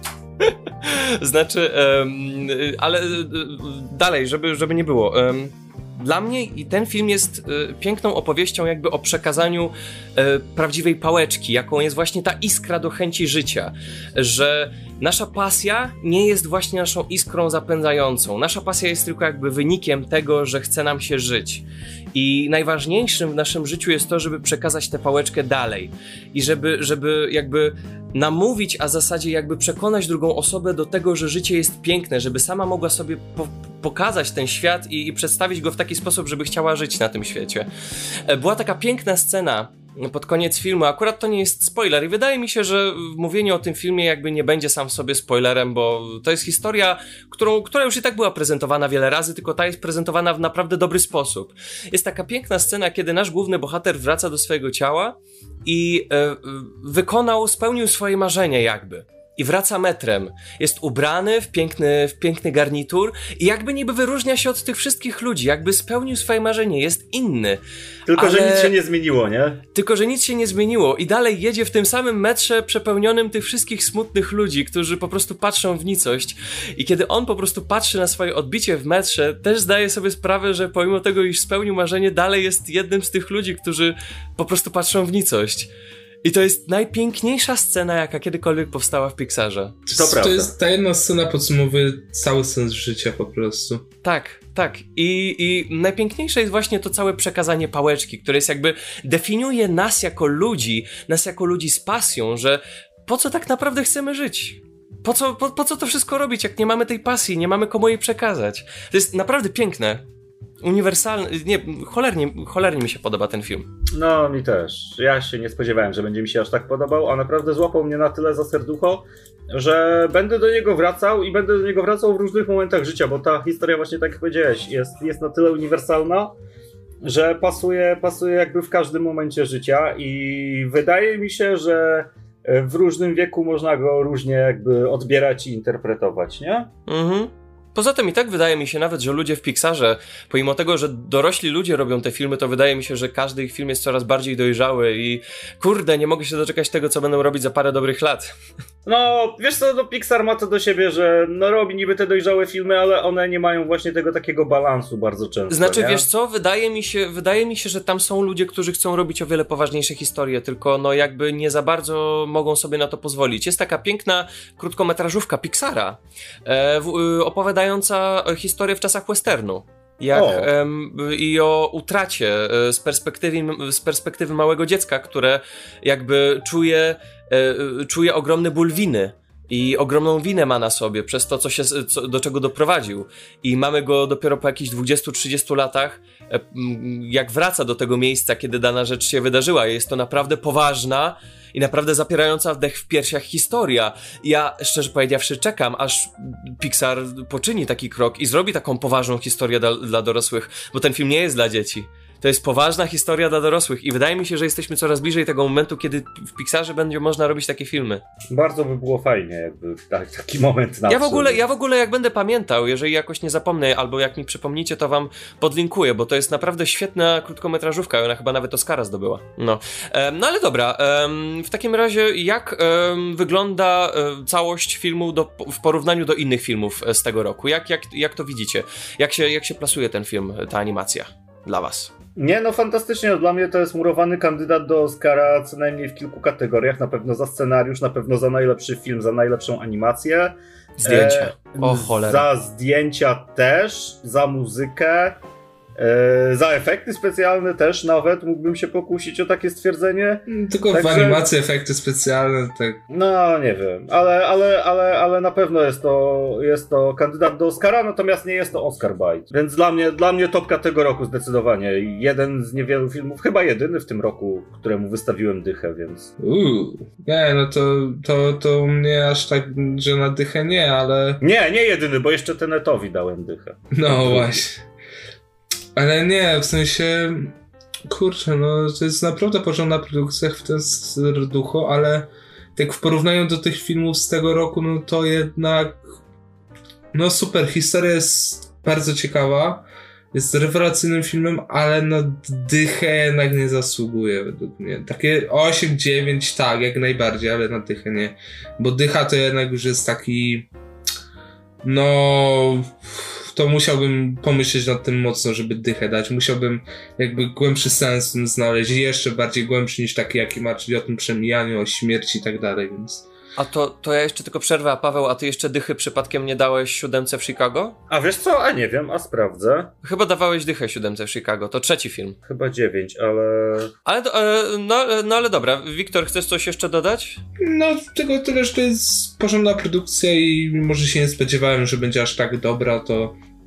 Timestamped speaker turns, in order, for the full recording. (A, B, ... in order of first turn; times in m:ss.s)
0:00.4-0:37.7 A
0:38.2-1:07.6 A
1:08.0-1:09.6 B
1:08.1-1:08.7 A
1:09.7-1:25.7 A
1:26.2-1:29.8 A
1:29.9-1:33.8 C
1:29.9-1:30.5 B
1:34.0-1:50.0 A
1:50.6-1:53.7 A
1:53.9-2:06.3 B
2:07.0-2:16.7 B
2:16.9-2:28.3 A
2:28.8-2:36.0 B
2:35.5-3:28.0 A
2:50.1-2:50.5 B
3:28.3-3:31.4 B
3:30.9-3:51.9 A
3:52.2-4:05.2 B
4:00.8-4:02.3 A
4:05.8-4:11.3 B
4:10.3-4:12.8 C
4:12.9-4:26.1 B
4:26.2-4:31.2 C
4:31.2-4:34.4 B
4:33.7-4:34.6 C
4:35.7-4:45.8 C
4:46.9-5:00.5 C
5:01.6-5:13.1 C
5:13.4-5:17.8 A
5:17.9-5:19.7 B
5:19.8-5:22.2 A
5:22.2-5:23.7 B
5:23.8-5:27.2 A
5:27.4-5:33.2 C